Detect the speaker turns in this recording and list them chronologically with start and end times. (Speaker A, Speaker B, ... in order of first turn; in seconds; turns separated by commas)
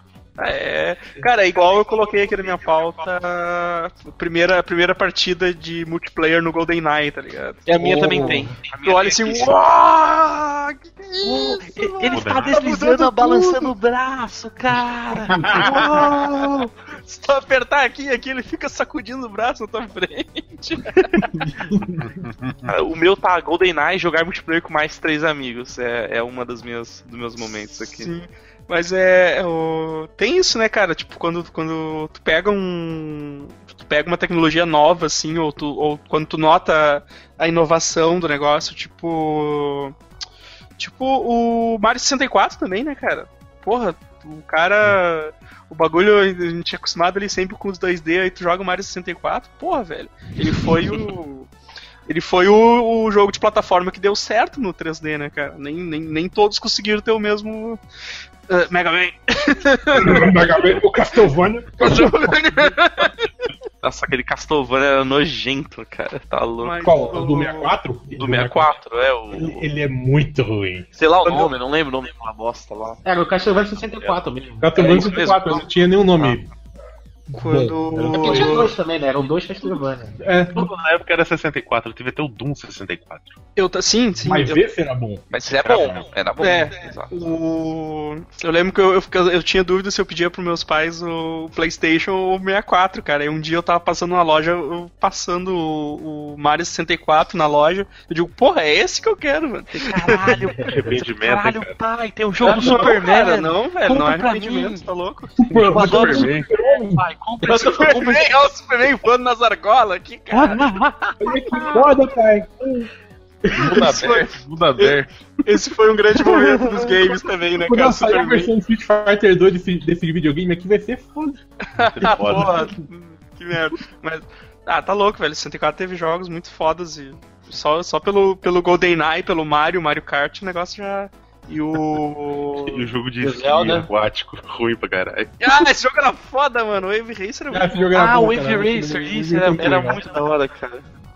Speaker A: 0.4-13.7, Speaker B: 7.7-9.7, Speaker C: 7.8-8.4, Speaker D: 8.1-8.4, Speaker B: 11.2-16.6, Speaker E: 12.1-12.6, Speaker A: 15.5-21.5, Speaker E: 21.9-22.7, Speaker B: 22.7-28.1, Speaker A: 27.8-40.0, Speaker A: 40.8-51.5, Speaker A: 52.1-57.8, Speaker A: 58.5-60.6, Speaker C: 59.9-62.4, Speaker A: 61.8-63.3, Speaker B: 63.8-66.8, Speaker A: 66.6-67.7, Speaker C: 66.8-68.8, Speaker B: 68.1-69.6, Speaker C: 69.3-70.9, Speaker B: 71.0-73.0, Speaker D: 73.0-75.2, Speaker C: 74.6-76.5, Speaker B: 74.8-76.4, Speaker C: 77.3-78.7, Speaker A: 77.3-78.7, Speaker D: 78.1-80.2, Speaker C: 80.2-80.7, Speaker E: 80.5-83.3, Speaker A: 83.6-84.7, Speaker C: 84.2-86.1, Speaker B: 85.3-87.1, Speaker A: 86.4-100.2, Speaker B: 99.7-104.9, Speaker E: 100.2-101.8, Speaker A: 102.4-106.2, Speaker C: 105.4-107.1, Speaker B: 105.5-108.3, Speaker A: 107.4-110.7, Speaker B: 110.5-110.9, Speaker C: 111.2-112.9, Speaker C: 113.5-113.8, Speaker E: 113.5-115.1, Speaker A: 113.7-118.5, Speaker C: 117.6-121.4, Speaker A: 121.8-132.8, Speaker E: 121.8-122.7, Speaker C: 122.0-122.5, Speaker E: 132.6-135.3, Speaker D: 133.2-133.9, Speaker A: 135.4-137.9, Speaker C: 137.5-140.0, Speaker B: 137.9-140.8